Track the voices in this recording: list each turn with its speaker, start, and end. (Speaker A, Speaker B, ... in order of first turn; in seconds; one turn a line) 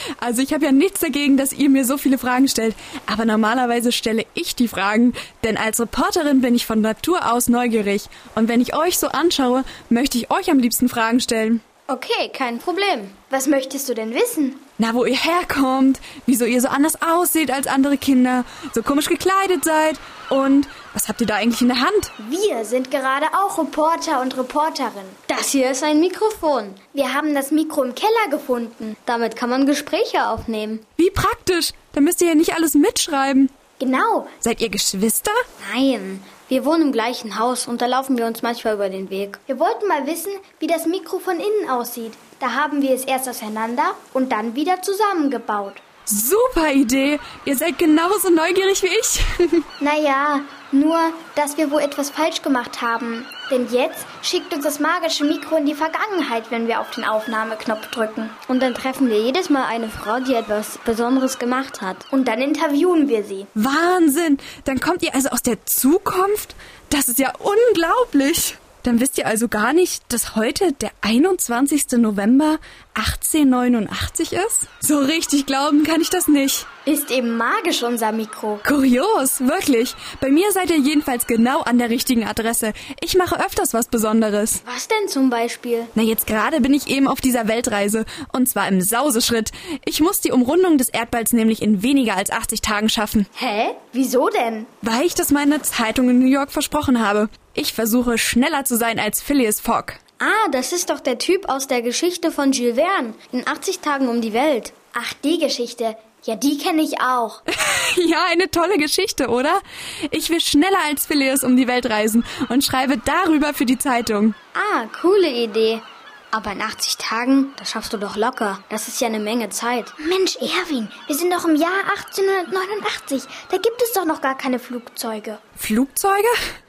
Speaker A: 0.2-11.6
Speaker B: 11.9-13.1
Speaker C: 13.3-14.6
Speaker A: 14.8-22.1
Speaker C: 22.2-25.2
Speaker B: 25.3-26.8
Speaker C: 26.9-29.0
Speaker B: 29.0-30.8
Speaker A: 31.0-33.5
Speaker C: 33.8-34.3
Speaker A: 34.4-35.4
Speaker B: 35.6-39.4
Speaker C: 39.5-45.8
Speaker A: 46.1-49.6
Speaker C: 49.8-58.4
Speaker B: 58.5-62.0
Speaker C: 62.1-63.5
Speaker A: 63.5-76.7
Speaker C: 76.8-78.6
Speaker A: 78.6-84.6
Speaker B: 84.6-85.9
Speaker A: 85.9-93.3
Speaker C: 93.3-94.7
Speaker A: 94.8-100.0
Speaker B: 100.2-104.7
Speaker C: 104.9-107.4
Speaker A: 107.5-114.3
Speaker B: 114.5-119.9
Speaker C: 120.0-125.4
Speaker A: 125.6-126.3